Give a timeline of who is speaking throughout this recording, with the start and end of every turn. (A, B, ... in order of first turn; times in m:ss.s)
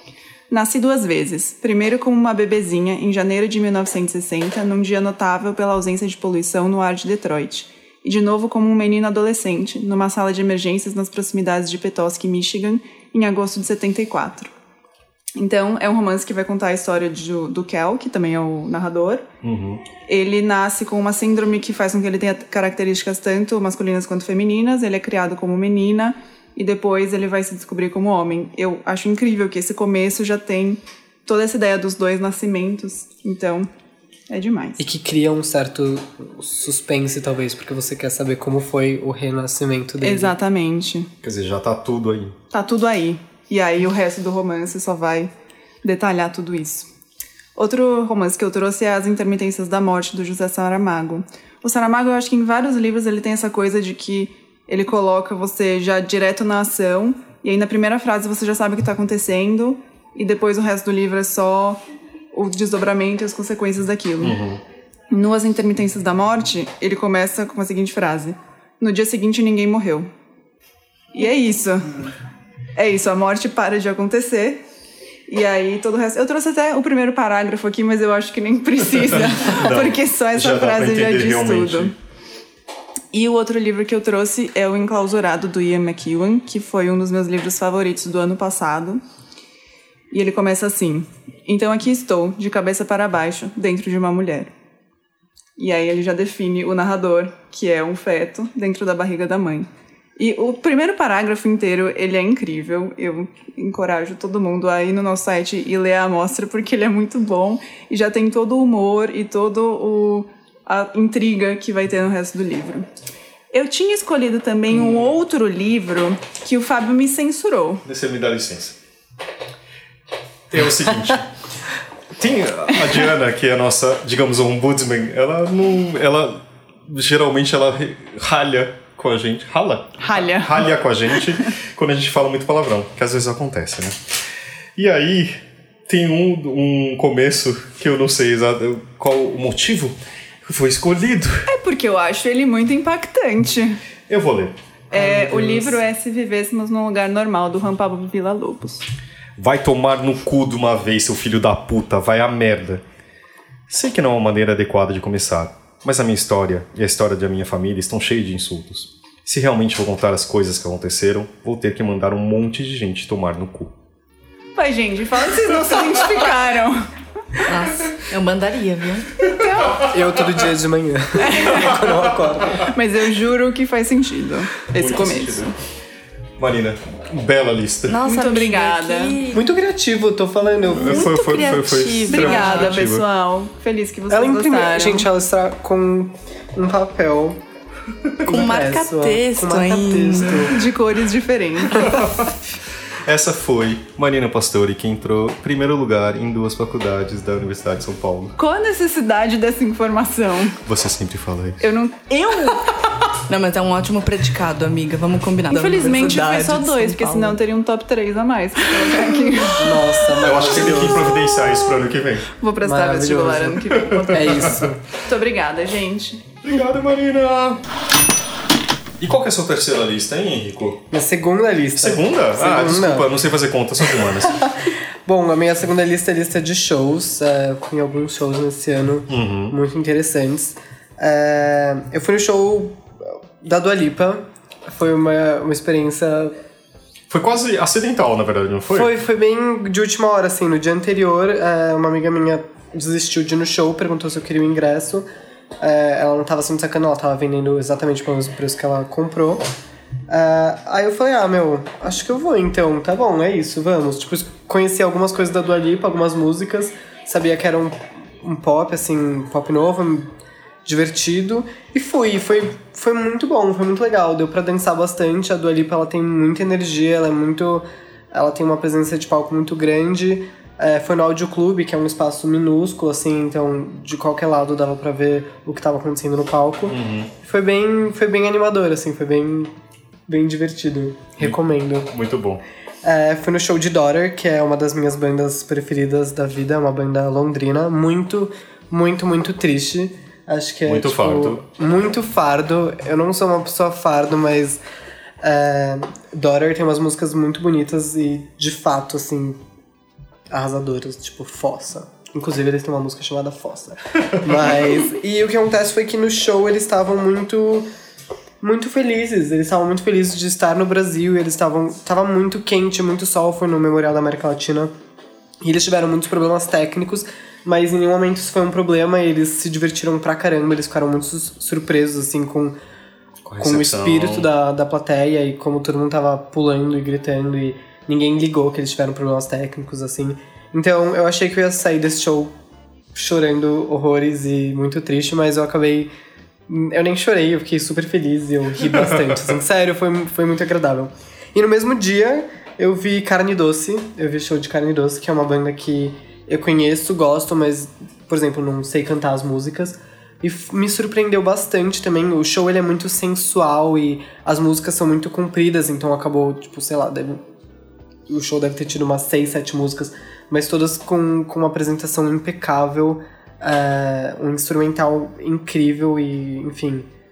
0:00.5-0:14.5 A
0:15.4-0:19.2 A
0:19.4-0:19.8 B
0:20.1-0:33.7 A
0:34.3-0:34.8 A
0:34.8-0:40.4 C
0:40.0-0:41.1 A
0:41.2-0:42.4 B
0:42.5-0:45.3 A
0:45.8-0:46.9 A
0:47.6-1:01.8 A
1:02.3-1:04.4 A
1:04.2-1:04.6 B
1:05.1-1:10.1 A
1:11.1-1:12.1 A
1:12.8-1:14.6 A
1:15.3-1:21.9 A
1:19.5-1:22.0 B
1:23.1-1:29.0 A
1:30.1-1:34.5 A
1:35.6-1:52.9 A
1:53.5-1:57.8 A
1:57.9-1:58.8 B
2:00.5-2:01.3 B
2:02.2-2:14.0 B
2:10.0-2:10.7 A
2:14.8-2:21.4 B
2:21.5-2:23.8 A
2:24.1-2:24.6 B
2:24.9-2:28.9 A
2:29.4-2:32.8 B
2:33.7-2:43.7 B
2:44.6-2:47.5 A
2:47.4-2:49.2 D
2:49.4-2:49.9 A
2:49.9-2:52.7 C
2:51.2-2:51.7 A
2:52.6-2:55.5 A
2:54.7-2:55.5 B
2:56.4-2:58.0 B
2:57.9-2:59.4 D
2:58.0-2:59.2 A
2:59.3-3:01.3 C
3:00.7-3:02.9 D
3:00.7-3:03.0 B
3:02.1-3:05.1 A
3:04.1-3:07.4 C
3:08.2-3:10.6 C
3:08.3-3:10.5 D
3:10.5-3:12.3 A
3:13.0-3:18.4 B
3:18.4-3:20.6 A
3:20.7-3:21.6 B
3:21.6-3:22.8 A
3:23.3-3:27.4 D
3:25.5-3:29.9 A
3:29.6-3:31.2 C
3:30.2-3:32.3 B
3:32.4-3:36.3 A
3:32.6-3:34.8 C
3:36.4-3:37.6 B
3:39.0-3:40.8 B
3:40.9-3:43.1 C
3:41.8-3:44.4 B
3:43.9-3:56.4 C
3:49.1-3:49.6 B
3:57.1-3:58.9 B
3:58.7-4:05.1 C
4:05.6-4:09.5 C
4:10.1-4:20.1 C
4:20.6-4:39.5 C
4:36.7-4:37.1 B
4:40.1-4:41.9 C
4:41.2-4:42.4 B
4:42.8-4:54.6 C
4:50.7-4:51.4 B
4:55.2-4:59.4 C
5:00.3-5:07.7 C
5:08.4-5:14.7 C
5:15.4-5:22.6 C
5:23.2-5:24.3 B
5:23.4-5:32.3 C
5:32.9-5:35.9 C
5:36.5-5:57.2 C
5:58.1-6:06.9 C